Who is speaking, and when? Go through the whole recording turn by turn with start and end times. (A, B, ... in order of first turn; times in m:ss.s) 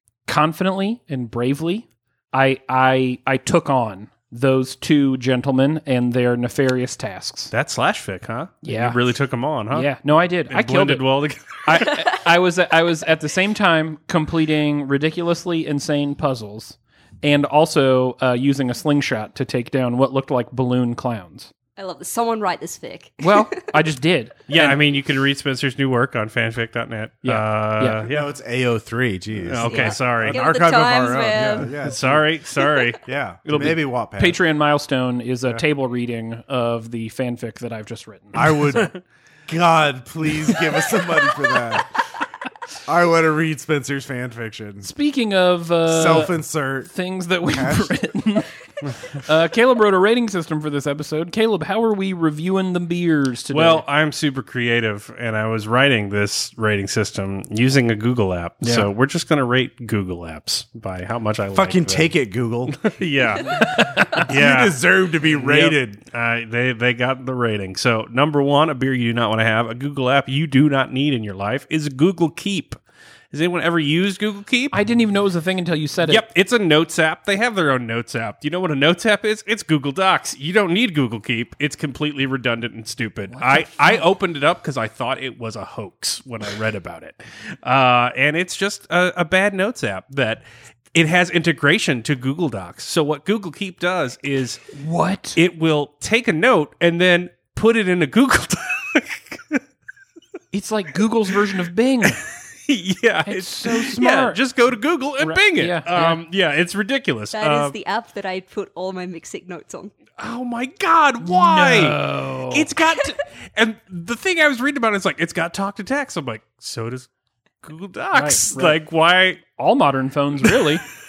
0:00.3-0:07.5 A
0:07.5-0:09.9 B
0:08.6-0:09.0 A
0:09.7-0:11.1 A
0:10.5-0:12.0 B
0:11.6-0:21.5 A
0:21.8-0:23.6 C
0:23.2-0:24.8 A
0:24.5-0:28.2 B
0:27.2-0:28.1 A
0:28.1-0:32.3 D
0:29.4-0:30.4 B
0:29.6-0:31.8 C
0:31.8-0:33.8 B
0:33.0-0:34.4 D
0:34.2-0:38.6 A
0:38.3-0:38.9 D
0:38.7-0:39.0 B
0:39.5-0:42.0 D
0:42.8-0:44.9 D
0:44.8-0:46.4 A
0:45.8-0:46.9 D
0:46.9-0:53.8 A
0:47.4-0:47.9 D
0:53.5-1:02.1 B
0:58.6-0:58.9 A
1:01.5-1:06.0 D
1:02.7-1:12.8 B
1:03.7-1:04.2 A
1:13.3-1:14.8 B
1:14.7-1:16.2 A
1:16.0-1:30.4 B
1:23.3-1:24.0 A
1:30.9-1:34.6 B
1:34.7-1:35.4 A
1:35.4-1:39.6 B
1:40.5-1:42.2 A
1:42.0-1:47.8 B
1:43.2-1:44.4 A
1:45.2-1:46.2 A
1:47.3-1:49.9 C
1:50.2-1:57.1 B
1:51.2-1:52.7 A
1:57.6-1:59.4 B
1:58.1-1:58.8 A
1:59.6-2:00.8 A